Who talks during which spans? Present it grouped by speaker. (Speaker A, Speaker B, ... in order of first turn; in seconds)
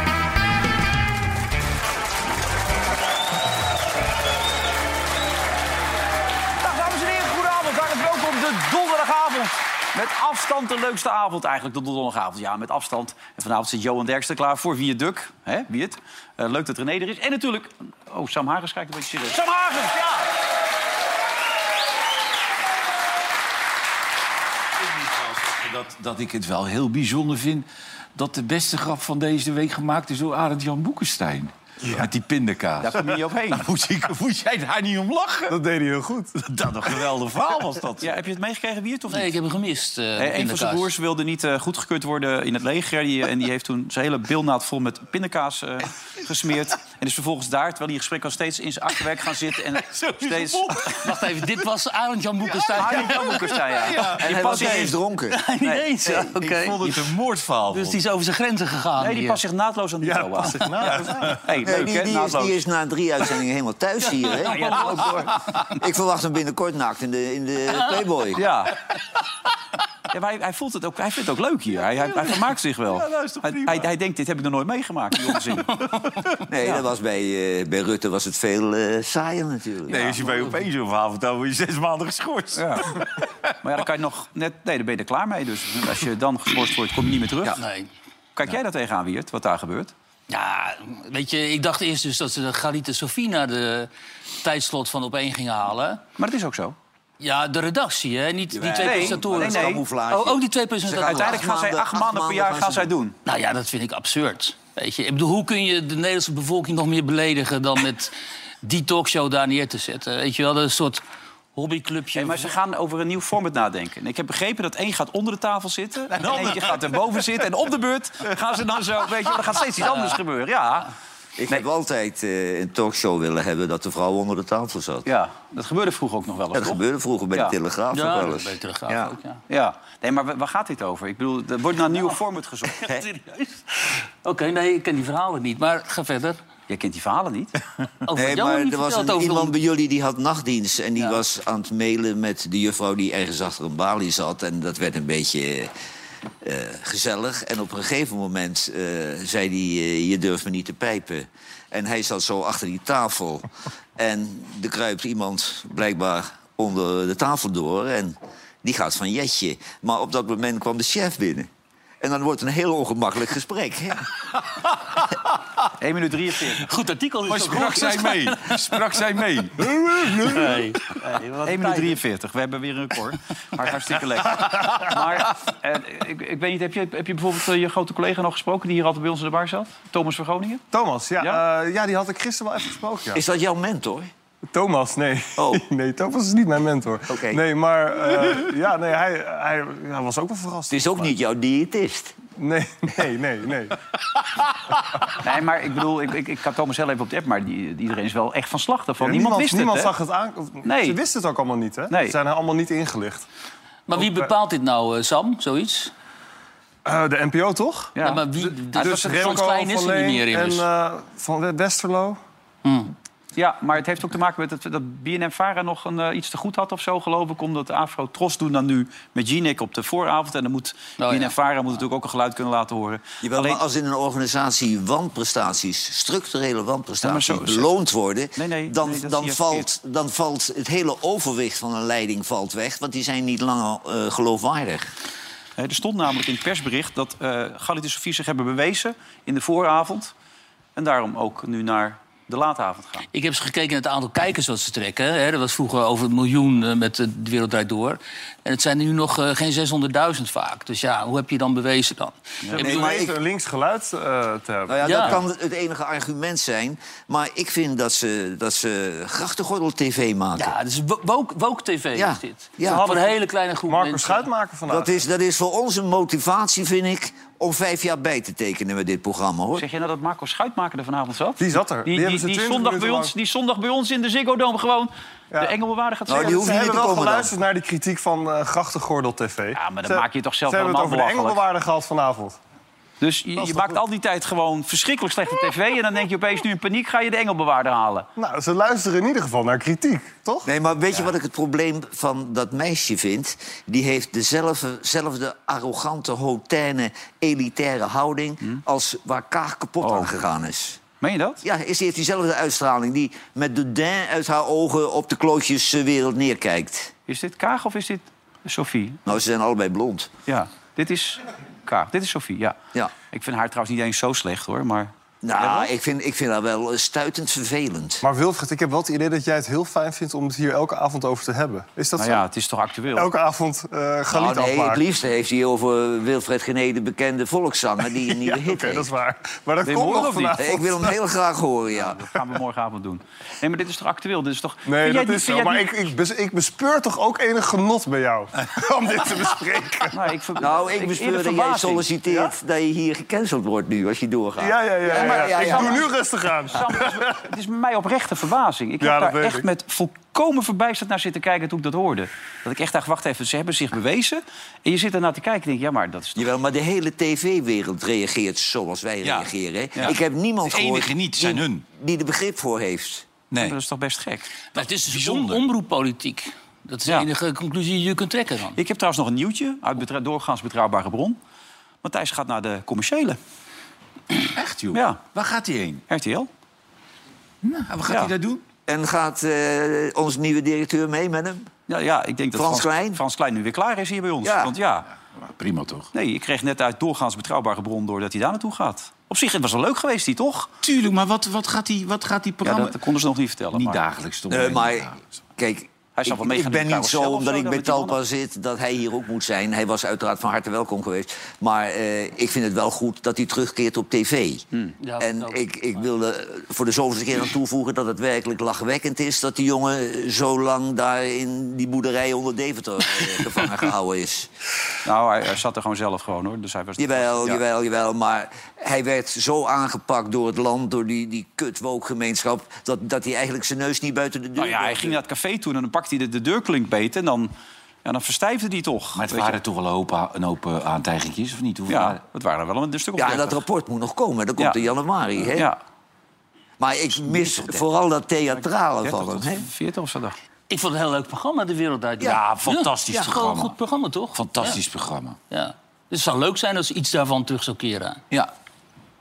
Speaker A: 6.6-20.3, 32.8-33.6, 38.0-39.4, 40.2-51.0, 52.8-55.0, 55.6-56.2, 59.0-62.6, 68.3-68.8, 70.1-76.0, 82.5-83.0, 83.6-87.6, 88.3-89.9, 96.2-96.7, 98.8-99.8, 101.0-103.2, 112.1-120.9, 125.0-126.8, 129.5-132.9, 136.7-137.6, 165.8-166.6, 171.4-180.6, 195.1-199.9, 200.6-201.0, 201.9-202.2, 207.9-208.2, 208.8-209.3, 213.3-223.6, 227.0-227.7, 228.4-229.7, 235.6-240.1, 240.8-243.1, 269.6-276.4, 279.5-281.4, 283.0-288.1, 299.8-300.1, 301.0-301.4, 307.1-309.0, 310.3-312.6, 313.1-315.7, 322.0-323.1, 329.6-330.4, 331.7-335.7, 339.9-341.9, 344.9-345.8, 346.5-356.3, 363.4-364.3, 368.6-371.2, 371.8-373.2, 374.7-375.0, 375.9-376.3, 381.7-384.9, 385.9-390.5, 392.4-393.8, 396.0-398.0, 414.8-417.4, 424.4-427.3, 427.8-429.4, 431.7-433.4, 435.3-435.6, 438.8-440.1
Speaker B: 24.8-35.5, 36.4-38.1, 49.9-51.5, 52.5-54.2, 56.4-58.0, 72.1-73.9, 79.8-83.5, 116.2-116.8, 167.2-170.5, 359.0-359.3, 359.8-361.6, 363.3-363.6, 364.6-365.4, 374.3-375.8, 377.4-378.4, 385.1-385.9, 390.6-392.8, 393.5-395.0, 428.9-432.0, 437.1-437.6, 442.0-443.6, 444.1-445.2
Speaker C: 35.5-36.4, 60.0-61.4, 180.7-183.2, 184.5-191.1, 192.4-193.8, 199.0-203.3, 203.9-204.3, 206.8-212.2, 252.6-255.2, 262.6-263.1, 263.6-264.9, 271.4-273.1, 276.1-282.4, 283.4-283.8, 288.2-290.5, 318.0-322.2, 322.9-324.8, 328.0-330.9, 334.6-340.0, 344.4-347.0, 348.8-349.5
Speaker D: 39.1-40.9, 50.9-53.6, 55.3-56.8, 57.7-59.4, 64.0-65.3, 87.5-87.9, 90.3-93.9, 94.4-96.0, 97.2-101.4, 103.2-111.0, 111.5-112.5, 127.9-129.4, 132.8-136.4, 138.1-139.5, 166.6-168.4, 170.2-172.0, 203.9-205.9, 208.0-210.6, 212.6-212.9, 221.0-221.3, 243.1-252.9, 254.8-255.2, 260.4-264.3, 364.5-368.6, 404.8-405.5, 440.5-444.6, 445.3-448.0
Speaker E: 54.2-55.4, 61.6-68.4, 76.5-80.3, 98.5-102.9, 121.4-125.1, 126.5-129.1, 138.1-145.7, 146.4-161.5, 162.0-164.1, 183.1-184.1, 185.4-185.6, 187.1-187.4, 190.7-192.2, 223.2-234.9, 252.6-253.1, 254.7-260.5, 261.9-262.9, 264.7-269.6, 276.1-277.3, 290.4-300.8, 301.4-306.9, 309.0-310.1, 315.2-318.0, 324.1-328.9, 330.4-332.0, 340.4-345.9, 356.1-363.1, 378.7-381.5, 382.3-383.0, 384.2-384.5, 394.3-404.4, 405.0-414.3, 416.8-425.0, 433.0-435.5, 436.6-439.4